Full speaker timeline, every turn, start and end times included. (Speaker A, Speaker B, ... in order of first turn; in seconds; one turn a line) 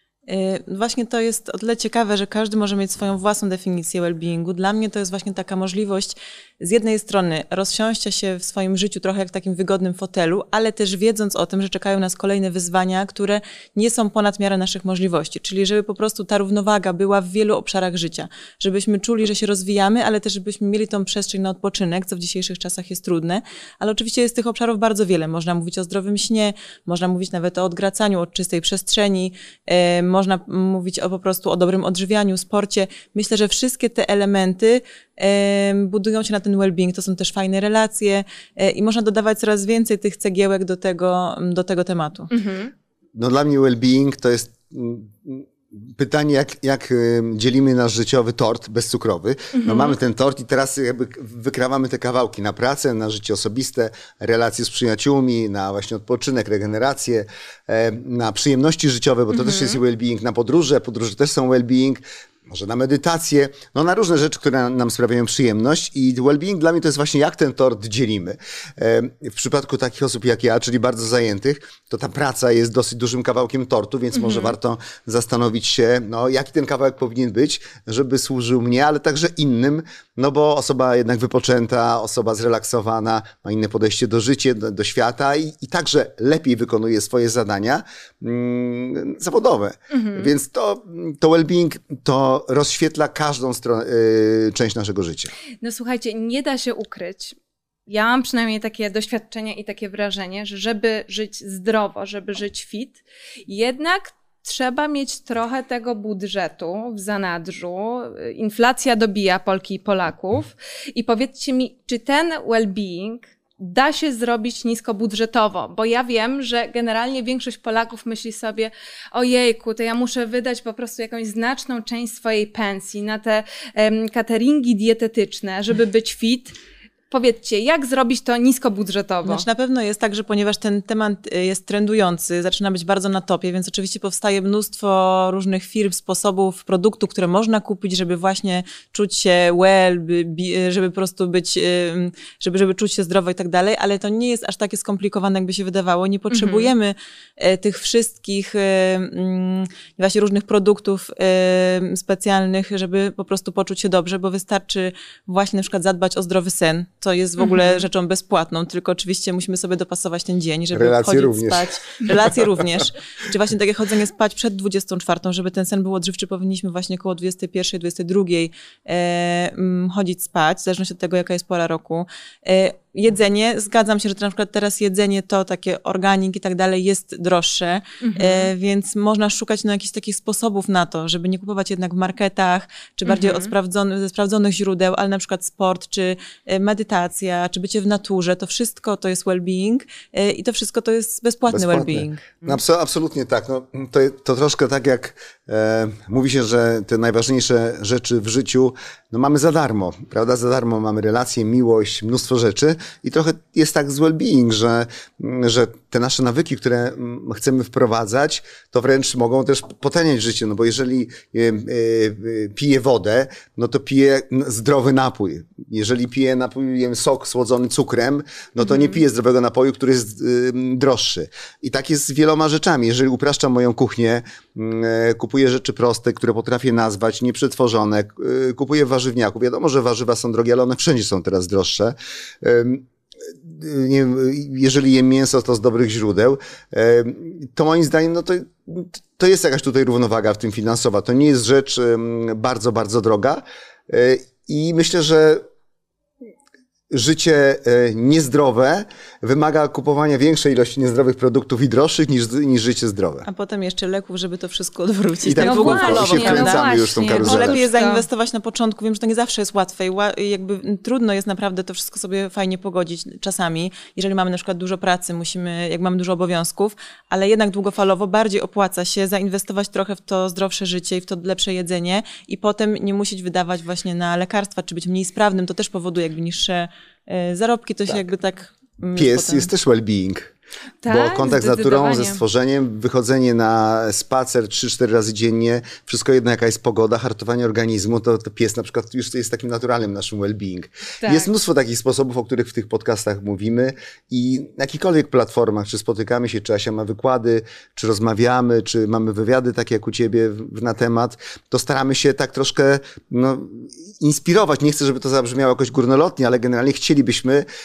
Speaker A: 0.3-42.3
Speaker B: 42.3-42.7
Speaker C: 43.1-95.3
Speaker B: 49.5-50.0
Speaker B: 59.3-59.8
Speaker B: 74.1-74.5
Speaker B: 89.9-90.3
Speaker B: 95.6-97.4
Speaker B: 97.9-126.5
Speaker B: 127.1-129.4
Speaker A: 129.2-192.3
Speaker B: 146.3-146.7
Speaker B: 157.4-157.8
Speaker C: 160.7-161.7
Speaker B: 178.0-178.5
Speaker B: 183.1-183.5
Speaker C: 191.5-232.9
Speaker B: 218.6-219.0
Speaker C: 233.4-245.4
Speaker C: 246.9-253.3
Speaker A: 253.2-279.5
Speaker C: 255.2-257.6
Speaker B: 255.4-258.1
Speaker C: 279.0-280.3
Speaker B: 280.8-282.2
Speaker C: 280.9-307.4
Speaker B: 291.0-291.3